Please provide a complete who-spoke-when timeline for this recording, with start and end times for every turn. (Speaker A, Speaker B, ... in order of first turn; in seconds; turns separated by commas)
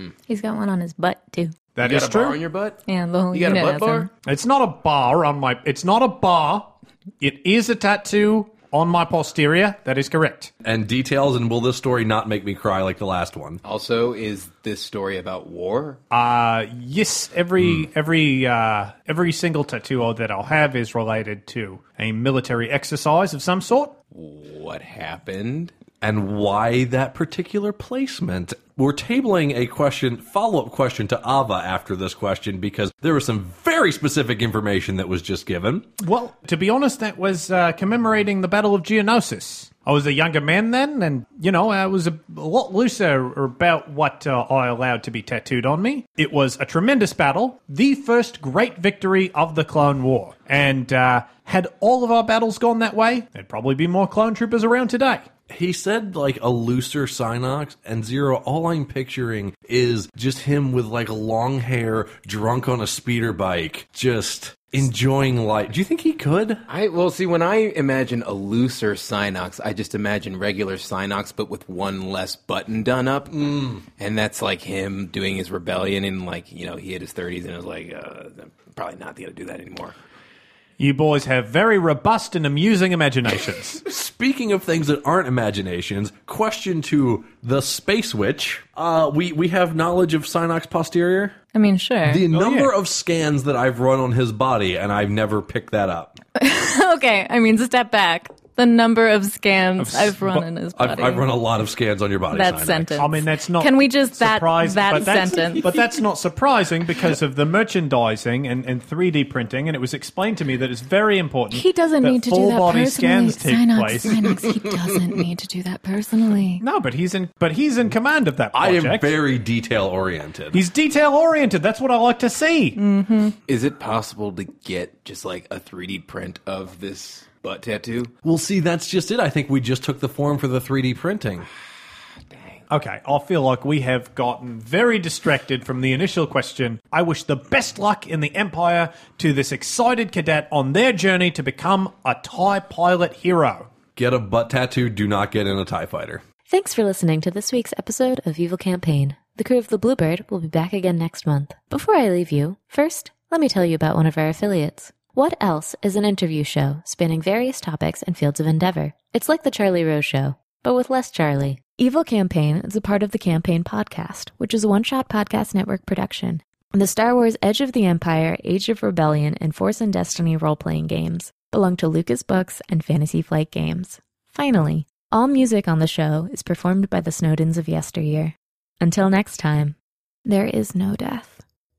Speaker A: 0.3-1.6, Speaker B: 1.8-2.4, Speaker C: 1.8-2.8, Speaker A: 2.9-4.1, Speaker C: 3.3-4.1, Speaker B: 4.2-10.5, Speaker D: 10.6-13.6, Speaker C: 13.6-16.0, Speaker B: 16.1-24.0, Speaker C: 24.1-25.7, Speaker D: 26.0-35.9, Speaker B: 36.0-55.3, Speaker D: 55.5-66.6, Speaker C: 66.7-80.0, Speaker D: 73.4-73.8, Speaker B: 80.8-83.8, Speaker D: 83.8-91.4, Speaker A: 91.5-92.2, Speaker D: 92.1-96.2, Speaker B: 92.3-92.7, Speaker A: 96.4-101.3, Speaker B: 99.8-100.4, Speaker D: 100.8-103.1, Speaker A: 102.3-105.8, Speaker B: 103.0-114.3, Speaker A: 111.5-116.6, Speaker B: 116.6-119.1, Speaker D: 118.5-120.6, Speaker B: 120.5-122.8, Speaker A: 122.8-123.3, Speaker C: 123.5-128.1, Speaker D: 128.2-131.5, Speaker B: 132.7-143.7, Speaker D: 144.0-146.2, Speaker E: 146.5-179.8, Speaker E: 180.3-181.4